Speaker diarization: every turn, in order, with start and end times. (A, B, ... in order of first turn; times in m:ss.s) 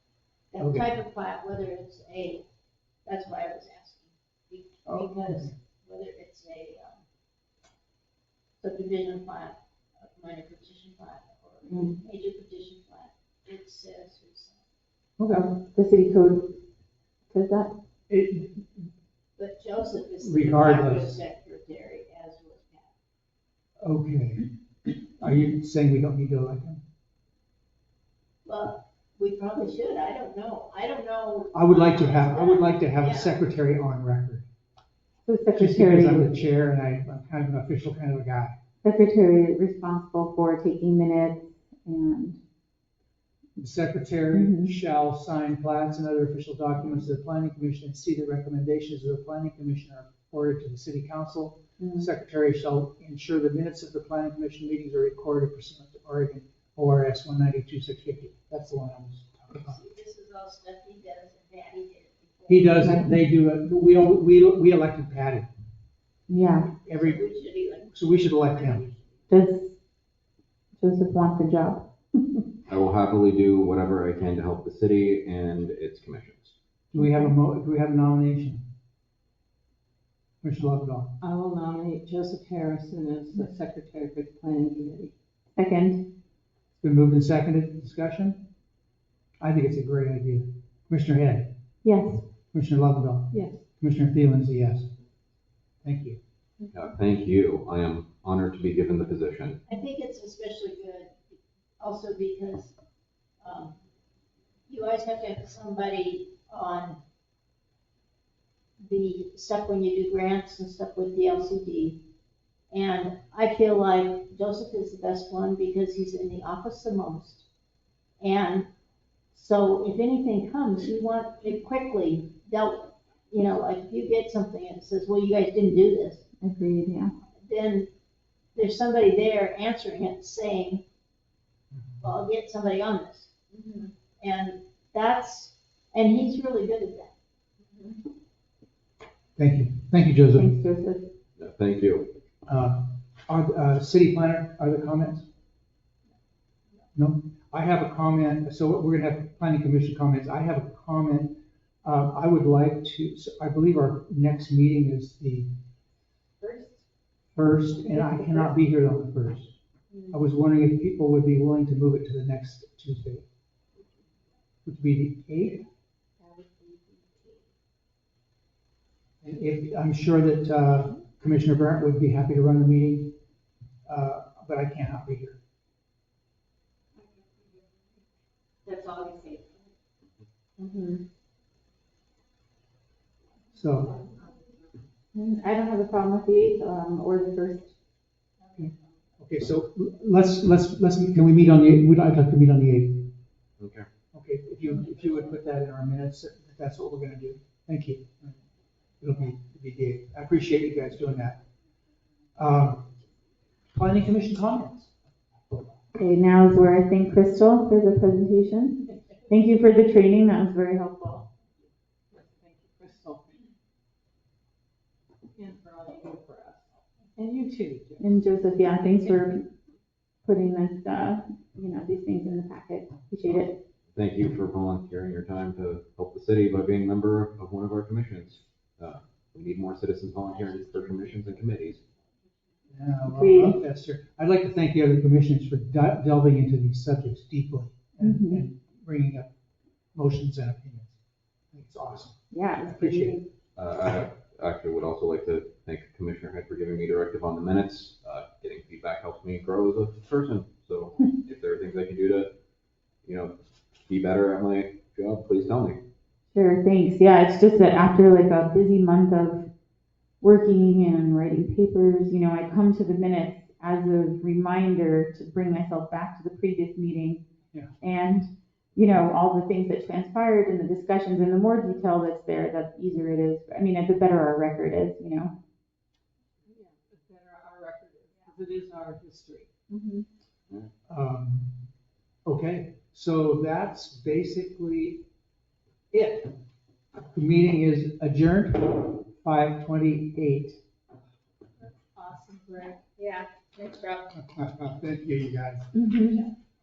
0:00.5-0:02.4 A
0:00.6-0:00.9 B
0:03.0-0:07.0 A
0:04.8-0:05.5 B
0:08.6-0:14.6 A
0:11.7-0:12.0 C
0:15.2-0:15.4 B
0:15.3-0:16.6 C
0:17.3-0:17.7 C
0:18.1-0:18.9 B
0:19.4-0:22.9 A
0:20.2-0:21.1 B
0:23.8-0:26.8 B
0:28.4-0:33.4 A
0:31.5-0:34.5 B
0:35.2-0:36.4 C
0:35.5-0:38.5 B
0:38.8-0:42.4 C
0:43.6-0:59.8 B
0:44.3-0:44.8 C
0:51.8-0:52.1 C
0:59.5-1:02.8 A
1:02.5-1:05.5 B
1:02.8-1:03.1 C
1:06.3-1:06.7 C
1:06.7-1:09.2 A
1:06.9-1:07.2 B
1:07.9-1:08.8 B
1:09.3-1:09.7 C
1:10.8-1:12.4 C
1:12.7-1:16.5 D
1:16.9-1:18.6 B
1:17.0-1:17.3 C
1:20.4-1:21.1 B
1:21.2-1:25.1 E
1:25.6-1:26.0 C
1:26.8-1:28.5 B
1:29.4-1:31.5 B
1:31.8-1:32.2 C
1:32.5-1:34.9 B
1:33.3-1:33.6 E
1:35.8-1:36.2 B
1:36.7-1:39.6 D
1:39.7-1:42.7 A
1:43.4-1:43.8 A
1:44.7-1:47.0 A
1:48.8-1:52.0 A
1:52.7-1:57.4 A
1:58.2-1:58.7 A
1:59.3-2:06.2 A
2:06.4-2:07.1 C
2:07.4-2:07.9 A
2:08.5-2:10.8 A
2:11.7-2:12.0 B
2:12.0-2:13.3 A
2:13.5-2:13.9 C
2:14.2-2:17.1 A
2:19.4-2:20.5 B
2:20.3-2:21.1 C
2:21.4-2:22.1 D
2:22.5-2:25.2 B
2:26.9-2:35.5 B
2:36.4-2:36.7 C
2:37.3-2:39.6 B
2:37.9-2:38.5 C
2:39.9-2:40.2 C
2:40.1-2:43.2 B
2:44.6-2:45.6 B
2:46.6-2:46.9 C
2:49.2-2:53.2 B
2:53.8-2:55.4 B
2:58.6-2:59.4 C
3:00.6-3:01.0 C
3:03.5-3:04.0 B
3:05.1-3:07.7 C
3:09.2-3:13.1 B
3:13.6-3:13.9 D
3:14.1-3:18.4 B
3:19.0-3:21.4 B
3:22.4-3:22.9 B
3:23.7-3:24.9 B
3:25.9-3:31.3 C
3:32.1-3:33.4 E
3:35.3-3:38.2 E
3:38.0-3:39.5 C
3:40.2-3:43.6 C
3:43.9-3:51.8 D
3:52.7-3:59.3 B
3:53.1-3:53.6 C
3:58.0-3:58.4 C
3:59.9-4:01.0 B
4:01.5-4:03.2 B
4:02.3-4:03.2 C
4:03.6-4:12.3 D
4:13.0-4:13.3 D
4:13.8-4:15.8 D
4:16.3-4:19.5 C
4:20.2-4:27.2 C
4:27.8-4:35.3 C
4:36.5-4:39.5 E
4:39.7-4:40.1 C
4:40.9-4:41.6 B
4:42.2-4:45.0 B
4:45.9-4:46.4 B
4:47.1-4:50.6 B
4:52.0-4:52.7 E
4:54.1-4:55.8 B
4:55.7-4:56.2 C